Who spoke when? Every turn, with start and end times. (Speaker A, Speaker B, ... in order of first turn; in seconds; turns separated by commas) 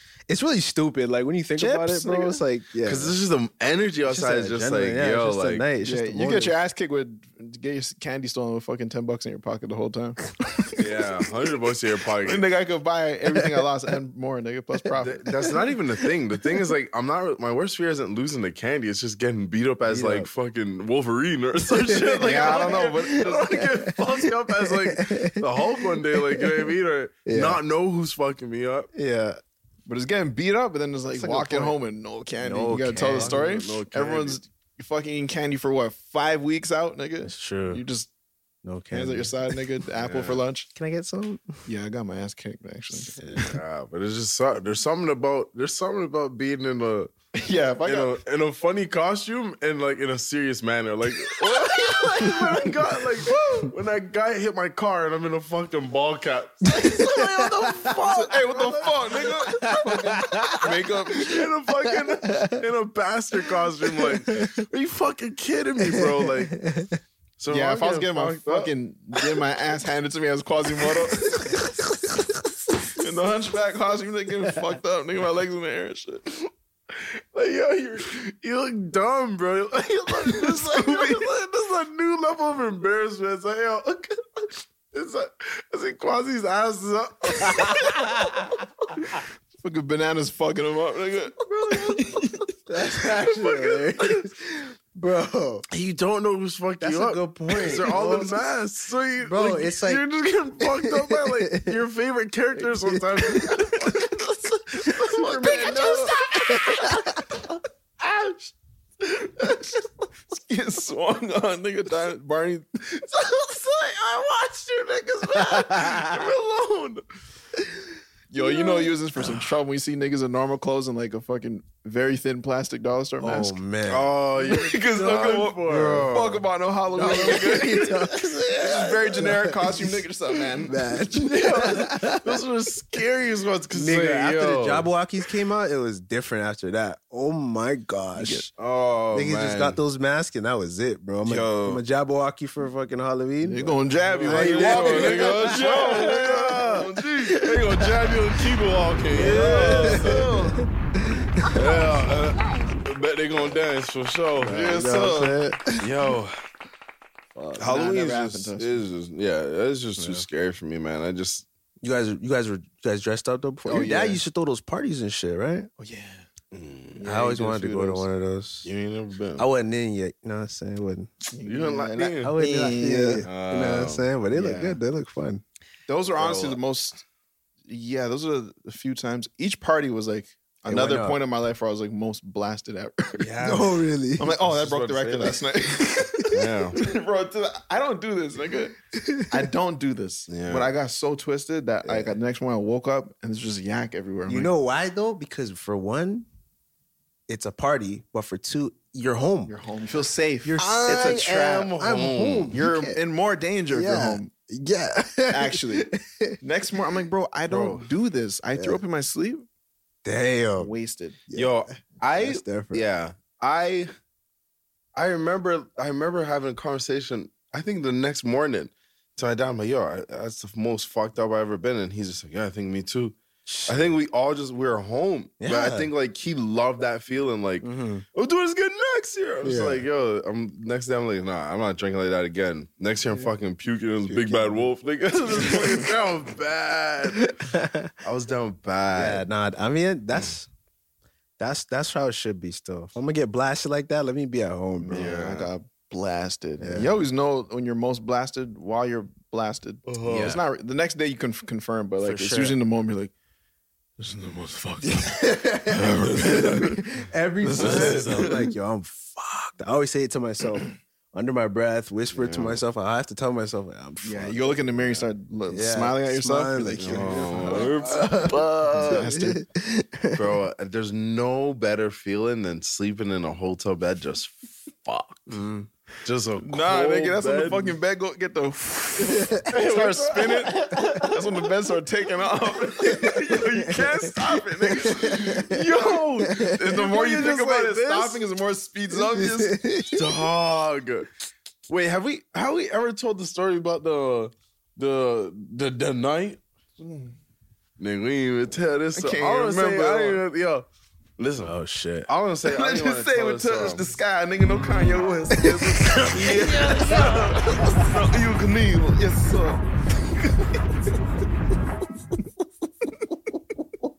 Speaker A: 0.3-3.2, Speaker B: 1.6-2.4, Speaker C: 2.8-5.7, Speaker A: 4.1-6.5, Speaker B: 5.8-10.8, Speaker C: 10.8-12.4, Speaker B: 12.2-15.3, Speaker C: 15.0-28.9, Speaker A: 19.9-20.3, Speaker A: 21.7-26.7, Speaker B: 22.2-23.6, Speaker A: 27.2-27.6, Speaker A: 28.9-29.4, Speaker B: 29.9-38.1, Speaker A: 31.2-31.8, Speaker A: 32.4-33.4, Speaker C: 33.0-34.4, Speaker A: 37.3-37.8, Speaker A: 38.6-39.5, Speaker B: 38.9-40.7, Speaker C: 40.0-40.4, Speaker A: 40.8-41.6, Speaker B: 41.7-43.5, Speaker A: 43.2-43.5, Speaker C: 43.4-47.1, Speaker B: 47.4-48.2, Speaker C: 47.9-59.7, Speaker B: 51.3-52.8, Speaker A: 56.8-57.8, Speaker B: 58.0-61.4, Speaker A: 59.2-60.7, Speaker C: 61.1-66.6, Speaker A: 61.9-62.6, Speaker A: 63.9-64.5, Speaker A: 65.9-67.0, Speaker C: 67.4-68.7, Speaker B: 67.5-71.6, Speaker A: 71.3-72.4, Speaker B: 73.0-76.4, Speaker C: 77.0-88.3, Speaker B: 80.3-81.2, Speaker A: 87.5-88.5, Speaker B: 89.6-92.4, Speaker C: 91.6-92.0, Speaker A: 92.7-95.7, Speaker C: 93.0-94.3, Speaker C: 95.7-106.1, Speaker A: 96.8-98.5, Speaker A: 99.2-100.0, Speaker A: 100.6-101.7, Speaker A: 102.8-103.7, Speaker A: 104.8-107.2, Speaker B: 105.1-107.5, Speaker B: 109.0-113.1, Speaker C: 113.2-117.0, Speaker B: 115.5-116.0, Speaker B: 118.3-123.6, Speaker A: 118.4-118.7, Speaker A: 123.2-124.1, Speaker C: 123.9-126.2, Speaker B: 124.4-131.0, Speaker A: 125.7-126.4, Speaker A: 126.9-129.9, Speaker A: 130.6-132.3, Speaker C: 131.2-134.9, Speaker A: 133.7-138.5, Speaker B: 138.2-138.5, Speaker C: 138.6-139.8, Speaker A: 139.1-148.2, Speaker C: 141.2-141.8, Speaker B: 143.4-147.4, Speaker C: 144.2-150.5, Speaker B: 149.1-150.6, Speaker A: 149.2-151.6, Speaker C: 151.5-154.8, Speaker A: 154.4-155.8, Speaker B: 154.4-155.6, Speaker C: 155.8-156.4, Speaker B: 157.5-158.8, Speaker C: 157.6-161.5, Speaker A: 160.0-160.2, Speaker A: 161.8-165.7, Speaker B: 163.7-164.2, Speaker B: 165.8-166.3, Speaker C: 166.5-167.0, Speaker B: 166.9-168.1, Speaker A: 167.0-168.7, Speaker C: 168.6-169.5, Speaker A: 169.4-171.1, Speaker B: 171.3-173.3, Speaker C: 171.4-172.3, Speaker A: 172.2-175.4, Speaker C: 173.3-174.1, Speaker B: 174.3-174.8, Speaker B: 175.9-177.0, Speaker C: 176.2-176.6, Speaker B: 177.7-183.3, Speaker A: 180.7-181.2, Speaker C: 183.2-183.8, Speaker A: 183.4-184.3, Speaker B: 184.2-188.8, Speaker C: 184.4-185.4, Speaker C: 186.3-186.8, Speaker A: 188.9-189.3, Speaker B: 189.3-194.5, Speaker C: 190.3-190.7, Speaker A: 191.8-192.1, Speaker A: 194.3-196.3, Speaker A: 197.3-199.6, Speaker B: 199.5-201.8, Speaker A: 200.4-201.2, Speaker C: 200.6-202.6, Speaker A: 201.8-203.0, Speaker B: 202.5-204.3, Speaker A: 203.7-206.4, Speaker B: 205.3-205.9, Speaker B: 206.4-209.4, Speaker C: 207.5-207.9, Speaker A: 210.1-210.7, Speaker B: 210.6-211.2, Speaker A: 211.3-212.8, Speaker C: 211.3-213.9, Speaker C: 214.9-237.4, Speaker A: 223.5-223.8, Speaker A: 225.4-225.9, Speaker A: 227.6-228.1, Speaker A: 229.4-229.8, Speaker A: 234.1-234.7, Speaker A: 237.2-237.9, Speaker C: 238.0-239.2, Speaker A: 238.9-240.5, Speaker A: 241.4-245.1, Speaker B: 244.8-253.1, Speaker C: 244.9-245.5, Speaker A: 246.6-246.9, Speaker C: 249.9-250.4, Speaker A: 252.0-252.6, Speaker B: 254.0-256.8, Speaker A: 254.8-270.2, Speaker C: 255.9-256.5, Speaker B: 257.4-258.3, Speaker C: 257.6-258.4, Speaker C: 262.1-262.6, Speaker B: 264.0-269.4, Speaker C: 266.8-269.1, Speaker C: 270.1-275.3, Speaker A: 275.3-275.7, Speaker C: 276.0-277.8, Speaker B: 276.4-286.0, Speaker C: 279.5-281.2, Speaker A: 282.9-283.7, Speaker A: 284.7-285.6, Speaker C: 285.0-288.2, Speaker A: 286.3-286.6, Speaker B: 286.5-289.8, Speaker A: 288.9-290.1, Speaker C: 289.9-291.1, Speaker C: 291.7-296.4, Speaker B: 296.8-297.1, Speaker C: 297.8-300.7, Speaker B: 298.9-300.2, Speaker C: 301.2-301.5, Speaker A: 301.4-302.1, Speaker C: 302.1-303.8, Speaker B: 302.4-309.6, Speaker C: 305.8-307.4, Speaker A: 306.1-306.8